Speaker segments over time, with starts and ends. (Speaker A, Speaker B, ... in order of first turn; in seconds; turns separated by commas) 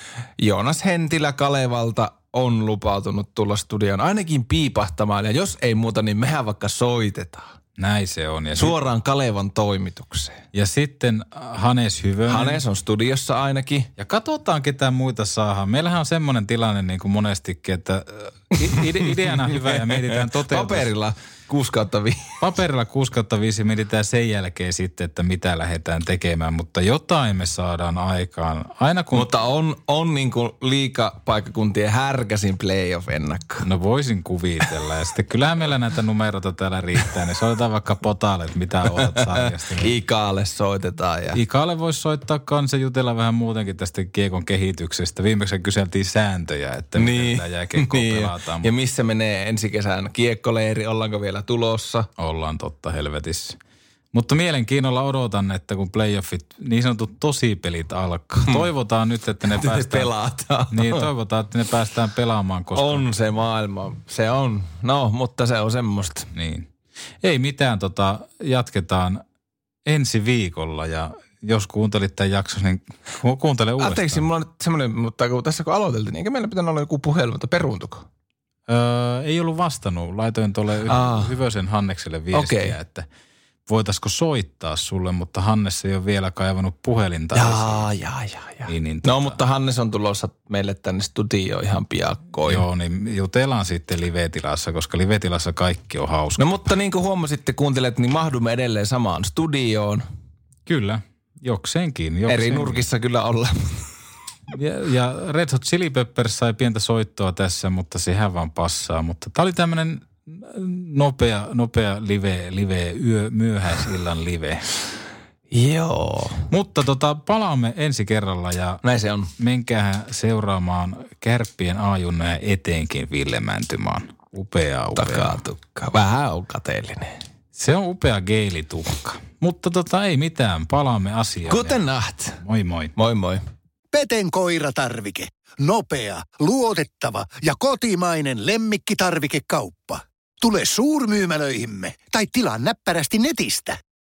Speaker A: 0.4-7.5, Speaker B: 7.8-8.8, Speaker A: 8.6-10.4, Speaker B: 10.5-12.6, Speaker A: 12.3-13.9, Speaker B: 14.0-20.9, Speaker A: 18.7-22.4, Speaker B: 22.4-29.3, Speaker A: 29.1-33.6, Speaker B: 33.6-39.9, Speaker A: 38.9-39.2, Speaker A: 39.8-41.4, Speaker B: 41.4-48.7, Speaker A: 47.0-52.1, Speaker B: 52.2-53.6, Speaker B: 54.1-60.1, Speaker A: 59.5-61.0, Speaker B: 60.7-63.1, Speaker A: 62.8-66.3, Speaker B: 66.3-66.7, Speaker B: 67.2-69.2, Speaker B: 69.9-74.2, Speaker A: 73.8-78.0, Speaker B: 78.7-83.1, Speaker A: 80.9-81.3, Speaker A: 82.3-82.8, Speaker B: 83.7-87.9, Speaker A: 87.3-92.6, Speaker B: 88.7-89.4, Speaker B: 92.5-96.7, Speaker A: 96.4-100.0, Speaker B: 100.7-102.8, Speaker A: 102.3-103.9, Speaker B: 104.5-114.6, Speaker A: 115.5-116.5, Speaker B: 116.5-118.8, Speaker A: 118.8-119.3, Speaker B: 119.4-125.4, Speaker A: 125.0-127.2, Speaker B: 127.6-131.8, Speaker A: 131.5-132.4, Speaker B: 132.4-132.9, Speaker A: 133.0-133.4, Speaker C: 133.9-143.8